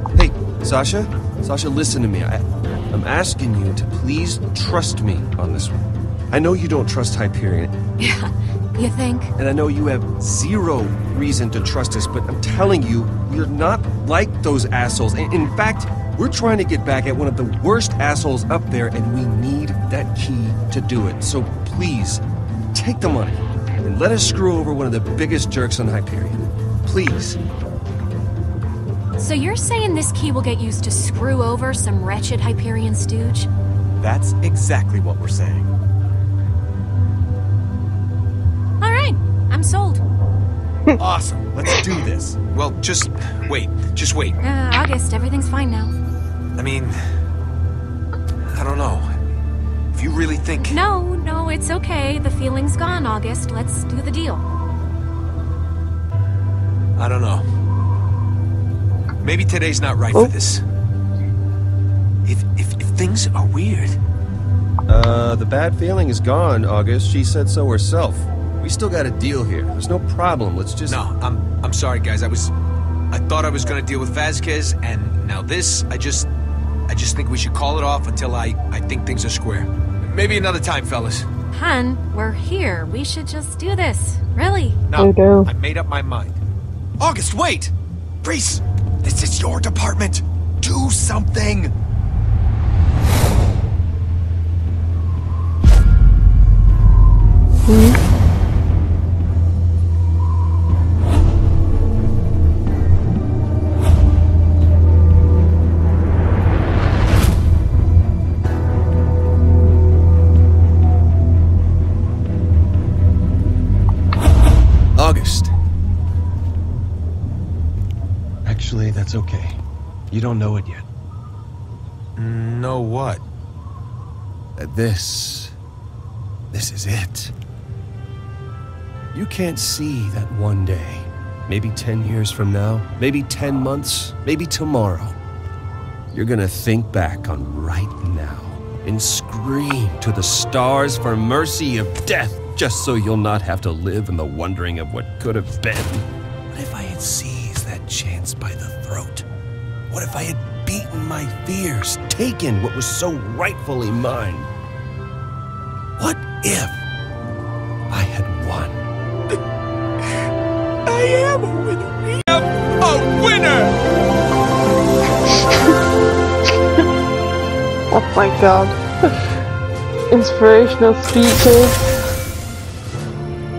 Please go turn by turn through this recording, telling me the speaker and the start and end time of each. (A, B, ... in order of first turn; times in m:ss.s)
0:00.1-0:07.7 A
0:08.0-0:09.3 B
0:09.4-0:22.2 A
0:22.7-0:27.4 A
0:29.2-0:33.5 B
0:34.0-0:35.7 C
0:38.8-0:40.0 B
0:41.0-0:42.4 C
0:42.5-0:44.4 D
0:44.4-0:45.9 B
0:46.6-0:47.0 D
0:48.5-0:49.1 D
0:49.9-0:50.8 D
0:50.6-0:54.4 B
0:57.0-0:57.4 D
0:59.2-1:00.6 D
1:02.2-1:04.0 D
1:04.9-1:11.0 A
1:10.8-1:12.5 D
1:13.1-1:16.3 D
1:16.9-1:21.3 D
1:21.5-1:24.8 B
1:24.9-1:26.4 D
1:24.9-1:25.5 E
1:27.0-1:27.7 C
1:28.2-1:31.7 C
1:28.3-1:28.5 D
1:29.3-1:29.6 D
1:37.7-1:38.0 E
1:55.0-1:55.5 A
1:58.4-2:00.8 A
2:02.2-2:03.2 D
2:04.6-2:05.5 A
2:06.5-2:07.3 A
2:09.1-2:15.2 A
2:16.1-2:29.2 A
2:29.9-2:34.5 A
2:36.0-2:36.8 A
2:37.9-2:38.8 A
2:41.0-2:43.7 C
2:47.9-2:48.8 E
2:50.1-2:51.7 E